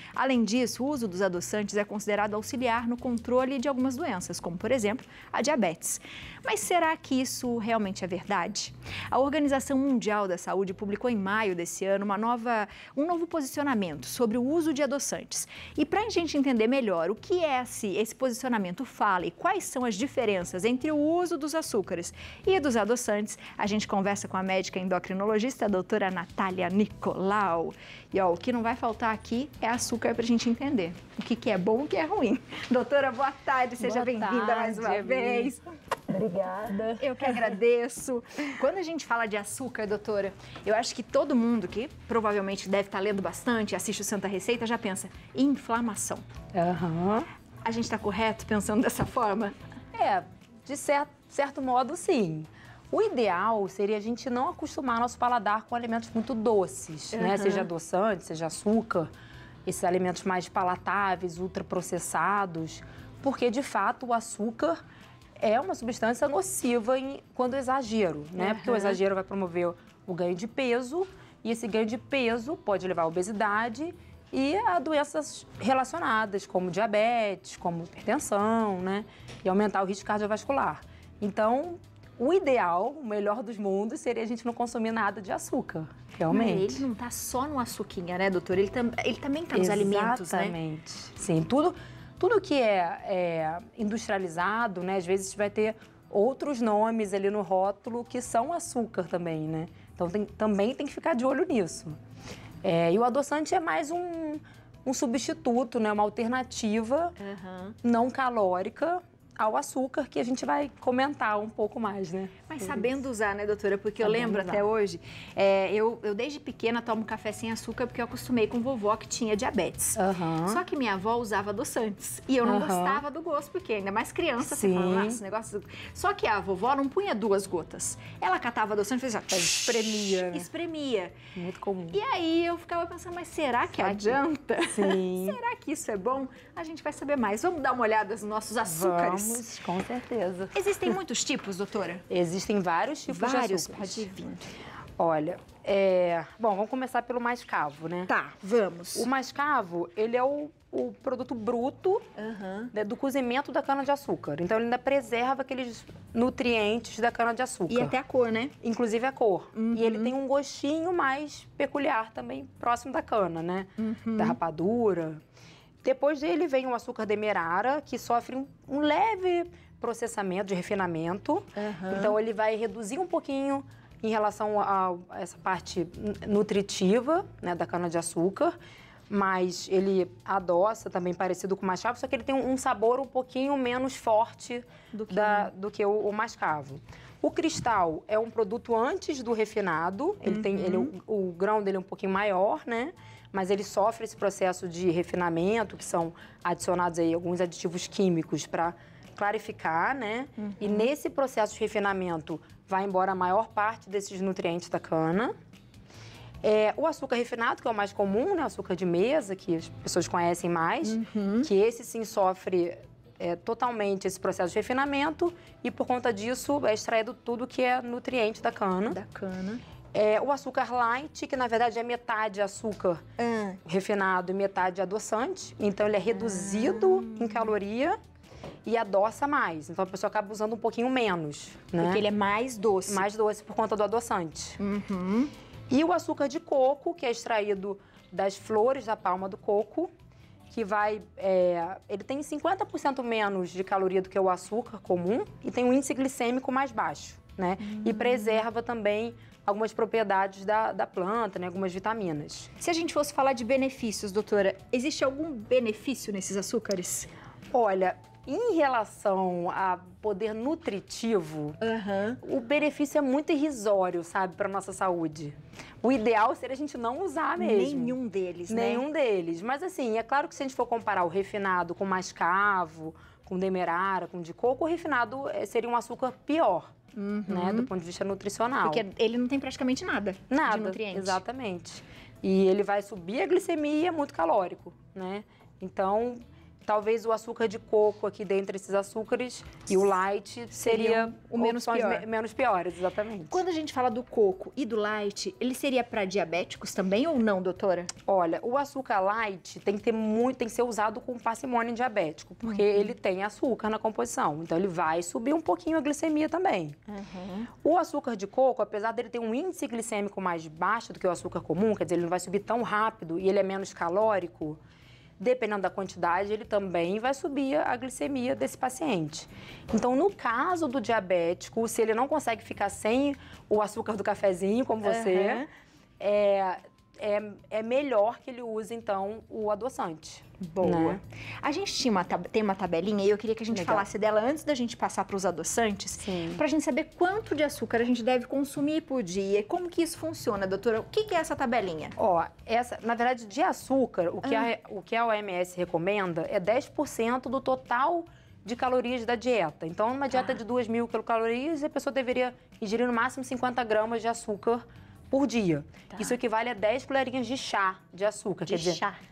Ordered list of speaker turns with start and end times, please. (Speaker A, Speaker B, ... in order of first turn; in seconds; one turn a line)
Speaker A: 0.1-35.6
Speaker B: 33.8-35.5
Speaker B: 36.1-37.3
Speaker A: 37.0-46.2
Speaker B: 46.5-47.3
Speaker A: 47.6-49.5
Speaker B: 49.9-59.1
Speaker A: 57.1-57.7
Speaker B: 59.7-64.8
Speaker B: 65.4-86.9
Speaker A: 68.4-69.0
Speaker A: 86.3-90.6
Speaker B: 89.5-102.0
Speaker B: 102.6-107.1
Speaker A: 107.2-107.8
Speaker B: 107.8-113.0
Speaker A: 112.5-131.2
Speaker B: 114.0-114.6
Speaker B: 120.0-120.6
Speaker B: 122.4-123.0
Speaker B: 124.4-125.2
Speaker B: 129.3-130.5
Speaker B: 131.3-132.0
Speaker A: 131.9-139.4
Speaker B: 133.8-135.4
Speaker B: 138.7-141.0
Speaker A: 140.5-142.0
Speaker B: 142.1-144.1
Speaker A: 143.1-144.5
Speaker B: 145.0-148.1
Speaker A: 148.1-149.1
Speaker B: 149.0-152.1
Speaker A: 152.2-152.7
Speaker B: 152.7-157.9
Speaker A: 157.7-158.5
Speaker B: 158.6-165.2
Speaker A: 159.5-160.1
Speaker A: 163.8-164.4
Speaker B: 165.8-178.5
Speaker A: 171.6-172.2
Speaker B: 179.1-205.3
Speaker A: 184.9-185.5
Speaker A: 190.2-190.9
Speaker A: 200.4-200.9
Speaker B: 206.4-219.0
Speaker A: 210.8-211.5
Speaker A: 218.9-219.6
Speaker B: 219.9-223.0
Speaker A: 223.2-223.6
Speaker B: 223.7-228.0
Speaker A: 226.1-227.5
Speaker B: 228.7-232.0
Speaker A: 231.8-233.1
Speaker B: 232.9-234.6
Speaker A: 234.6-235.3
Speaker B: 235.7-239.9
Speaker B: 240.5-252.5
Speaker A: 247.6-248.4
Speaker A: 252.6-257.1
Speaker B: 257.5-261.6
Speaker A: 261.6-262.2
Speaker B: 262.2-267.9
Speaker A: 267.4-268.8
Speaker B: 268.5-276.7
Speaker A: 276.9-277.7
Speaker B: 277.3-278.8
Speaker A: 278.6-281.2
Speaker B: 280.3-293.4
Speaker A: 290.5-292.0
Speaker A: 293.3-297.9
Speaker B: 298.1-306.8
Speaker A: 302.4-302.9
Speaker A: 306.9-307.5
Speaker B: 307.6-314.6
Speaker B: 315.2-325.4
Speaker A: 324.8-325.5
Speaker B: 326.0-331.0
Speaker A: 330.4-341.9
Speaker B: 333.5-333.9
Speaker B: 336.0-336.4
Speaker B: 342.0-358.8
Speaker A: 344.2-344.5
Speaker A: 350.1-350.4
Speaker A: 358.5-359.0